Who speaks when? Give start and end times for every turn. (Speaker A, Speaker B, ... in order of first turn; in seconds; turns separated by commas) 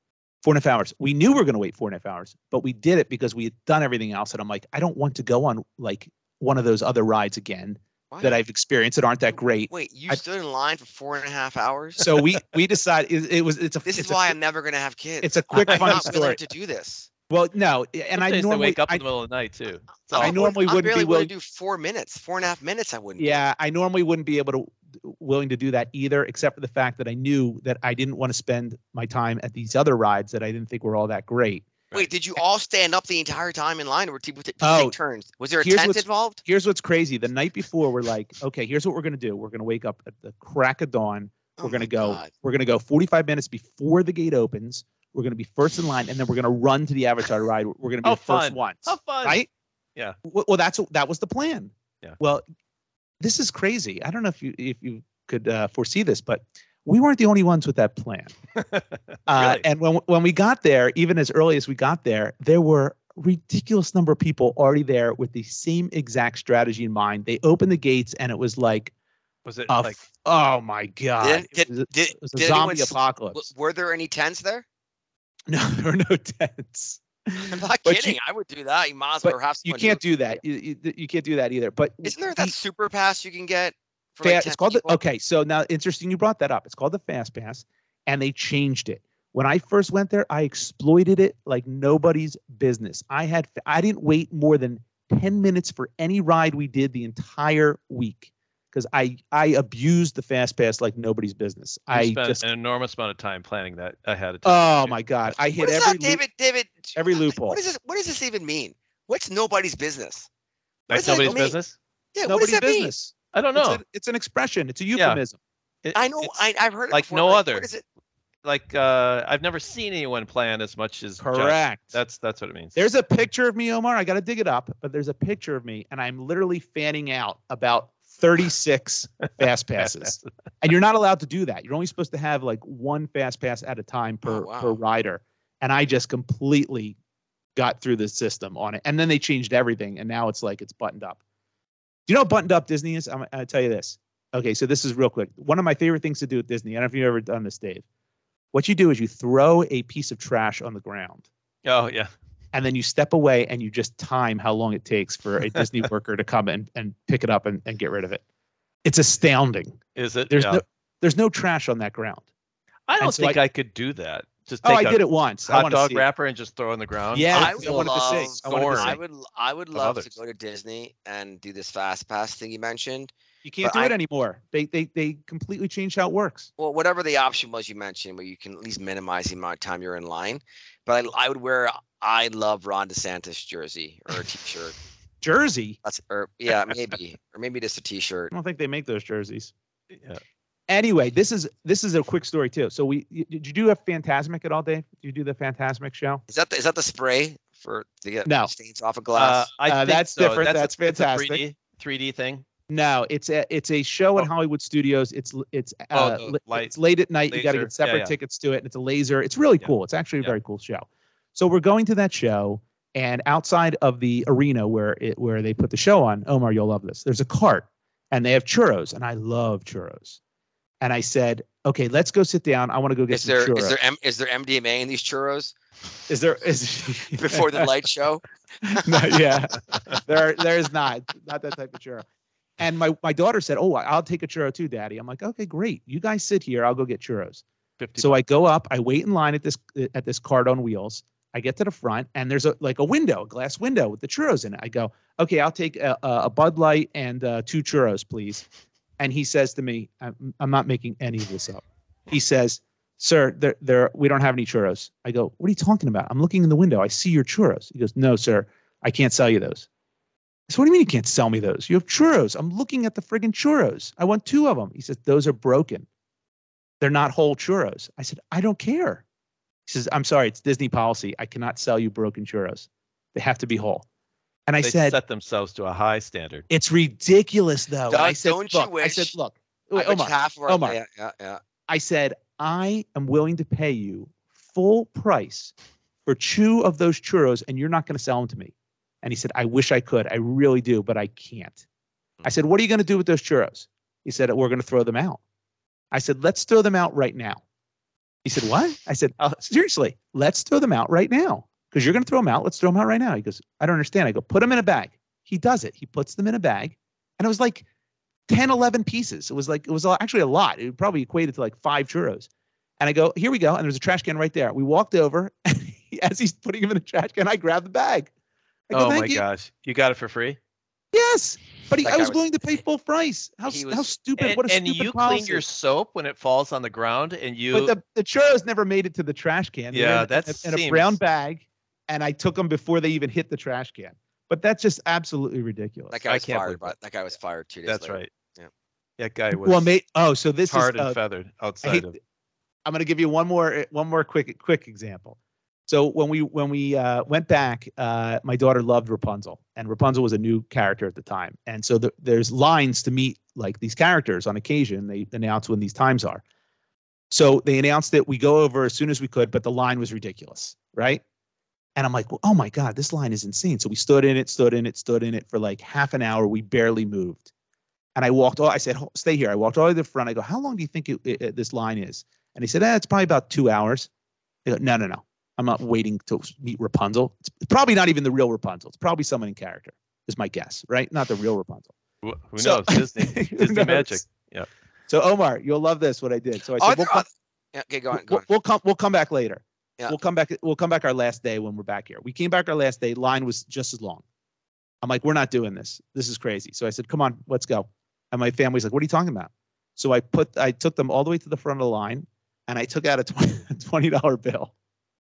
Speaker A: 0.4-10.2, Speaker B: 8.1-8.4, Speaker B: 9.7-12.1, Speaker A: 12.0-14.3, Speaker B: 13.8-17.1, Speaker A: 15.2-16.4, Speaker C: 15.7-16.0, Speaker A: 17.3-19.0, Speaker C: 18.1-20.4, Speaker B: 20.0-23.4, Speaker A: 20.2-21.3, Speaker A: 23.2-31.8, Speaker B: 31.9-36.4, Speaker A: 34.6-35.0, Speaker A: 35.6-49.5, Speaker B: 41.6-42.3, Speaker C: 48.0-49.4, Speaker A: 50.2-52.5, Speaker A: 53.2-58.3, Speaker C: 58.6-59.7, Speaker A: 59.3-68.9, Speaker C: 69.5-70.0, Speaker A: 69.7-73.5, Speaker B: 71.2-74.7, Speaker A: 75.5-78.2, Speaker B: 77.4-80.4, Speaker A: 79.2-82.5, Speaker B: 82.0-85.0, Speaker A: 84.2-102.4, Speaker C: 101.9-105.0, Speaker A: 104.5-106.2, Speaker B: 105.6-110.3, Speaker A: 107.0-107.6, Speaker B: 110.9-111.6, Speaker C: 110.9-111.8, Speaker A: 111.0-111.5, Speaker B: 112.2-112.9, Speaker A: 112.2-115.4, Speaker C: 113.3-113.8, Speaker C: 115.0-115.2, Speaker C: 115.8-116.4, Speaker B: 115.9-117.8, Speaker C: 116.9-117.7, Speaker C: 118.4-122.8, Speaker A: 121.2-122.0, Speaker A: 122.8-137.0, Speaker C: 129.8-130.2, Speaker B: 134.2-134.8, Speaker A: 137.6-141.2, Speaker A: 142.1-147.8, Speaker A: 148.5-151.3, Speaker C: 151.7-152.1, Speaker A: 152.5-158.2, Speaker A: 158.8-159.8, Speaker C: 160.0-160.6, Speaker A: 160.3-162.2, Speaker C: 162.9-169.0, Speaker A: 163.0-163.4, Speaker A: 164.6-166.1, Speaker A: 167.1-169.0, Speaker B: 167.3-173.1, Speaker C: 169.7-170.1, Speaker A: 173.4-176.5, Speaker B: 173.6-173.9, Speaker B: 176.6-184.8, Speaker A: 185.2-185.8, Speaker B: 185.8-188.3, Speaker A: 188.3-189.5, Speaker A: 190.7-196.2, Speaker B: 196.3-199.5, Speaker A: 198.2-198.5, Speaker C: 199.2-202.4, Speaker A: 199.7-201.4, Speaker A: 202.7-220.2, Speaker C: 205.9-206.7, Speaker C: 207.3-208.1, Speaker C: 209.6-210.3, Speaker A: 220.8-223.8, Speaker B: 223.1-225.6, Speaker A: 226.1-227.7, Speaker B: 227.1-229.1, Speaker A: 228.7-232.1, Speaker A: 232.6-237.4, Speaker C: 237.8-238.2, Speaker A: 238.0-248.4, Speaker A: 249.0-259.7, Speaker A: 260.5-265.9, Speaker A: 266.8-269.0, Speaker A: 269.7-273.9, Speaker A: 274.5-275.0, Speaker C: 274.6-276.5, Speaker A: 276.5-280.8, Speaker B: 277.9-279.1, Speaker B: 279.8-281.4, Speaker A: 281.7-285.5, Speaker A: 286.1-291.6, Speaker A: 292.2-295.2, Speaker A: 295.9-297.4, Speaker A: 298.2-307.7, Speaker A: 308.3-312.3, Speaker A: 312.8-318.1, Speaker A: 318.7-319.2, Speaker C: 318.7-320.4, Speaker A: 320.9-325.4, Speaker B: 321.8-322.2, Speaker B: 323.4-323.9, Speaker C: 324.2-327.8, Speaker A: 327.5-336.0, Speaker C: 329.7-330.9, Speaker B: 335.9-338.5, Speaker C: 336.1-336.8, Speaker C: 337.7-338.1, Speaker C: 339.0-339.7, Speaker A: 339.3-341.0, Speaker C: 340.5-341.9, Speaker A: 341.6-341.9, Speaker A: 342.7-356.2, Speaker A: 357.1-361.0, Speaker A: 361.8-367.3, Speaker A: 368.0-373.9, Speaker A: 374.4-381.7, Speaker C: 382.0-384.5, Speaker A: 382.4-384.1, Speaker A: 384.9-387.1, Speaker B: 386.6-388.3, Speaker A: 387.9-394.0, Speaker A: 394.8-404.5